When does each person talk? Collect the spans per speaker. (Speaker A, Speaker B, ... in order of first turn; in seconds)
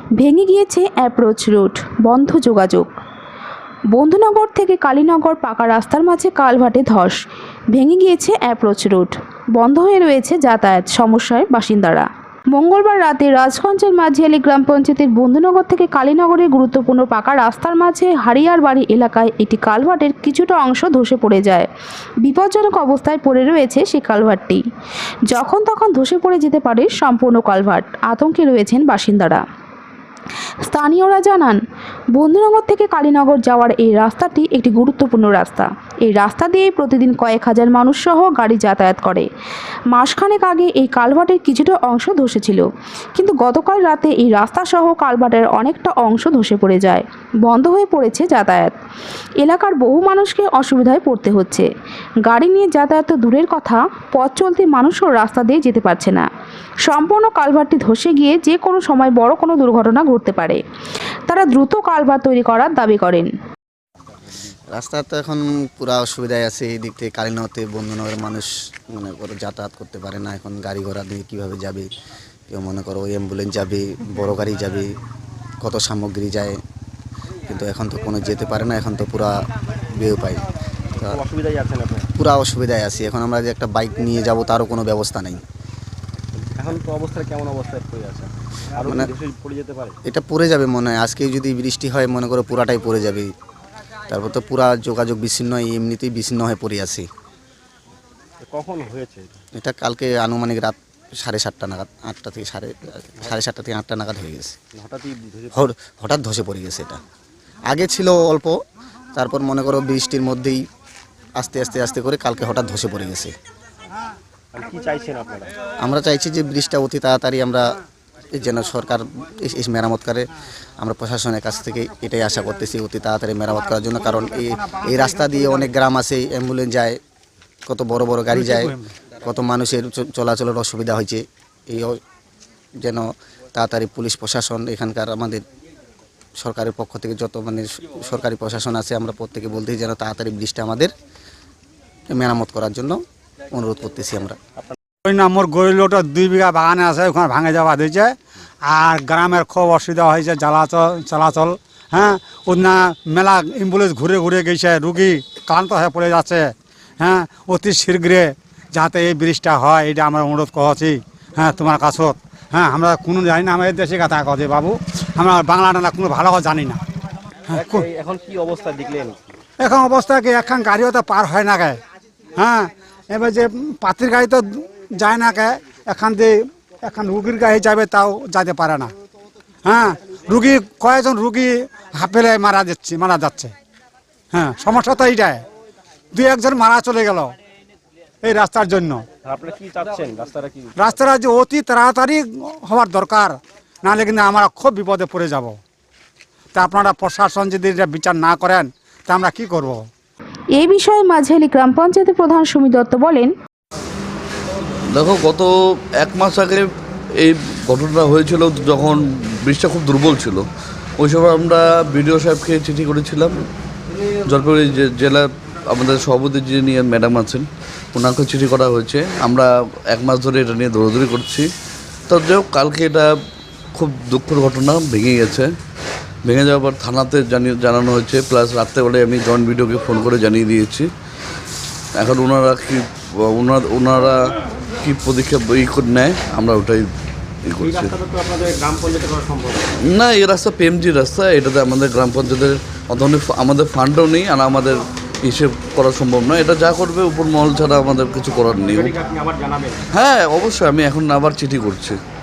Speaker A: 0.2-2.9, 3.9-7.2, 7.7-21.7, 22.2-24.6, 25.3-29.4, 30.6-31.6, 32.1-39.3, 39.9-42.6, 43.1-48.7, 49.4-51.7, 52.2-56.2, 56.8-60.6, 61.3-63.3, 200.5-203.3
Speaker B: 64.7-71.9, 72.5-74.9, 75.6-76.6, 77.5-80.5, 82.2-85.4, 88.8-89.1, 90.0-93.3, 94.1-97.0, 99.5-104.6, 105.5-107.0, 107.7-108.6, 109.1-110.6, 111.4-113.3, 115.8-117.7, 118.3-120.2, 120.8-127.0, 127.7-132.0, 132.8-135.4, 136.4-140.9, 142.1-143.0, 143.5-144.4
Speaker C: 81.0-82.1, 86.3-90.0, 98.4-99.4, 104.7-105.6, 114.5-115.5, 167.5-169.3, 189.2-190.9, 237.6-239.7, 248.7-249.8
Speaker D: 128.4-128.8, 145.0-166.8, 167.5-167.8, 169.6-171.8, 172.3-178.9, 179.6-183.5, 184.3-185.4, 186.1-187.3, 188.2-189.1, 190.8-195.6, 196.5-199.9
Speaker E: 204.9-206.7, 207.2-210.4, 211.0-213.3, 214.3-221.5, 222.1-223.1, 223.7-225.5, 226.2-230.9, 231.9-234.2, 234.8-236.9, 237.5-237.9, 239.9-248.9, 249.9-252.0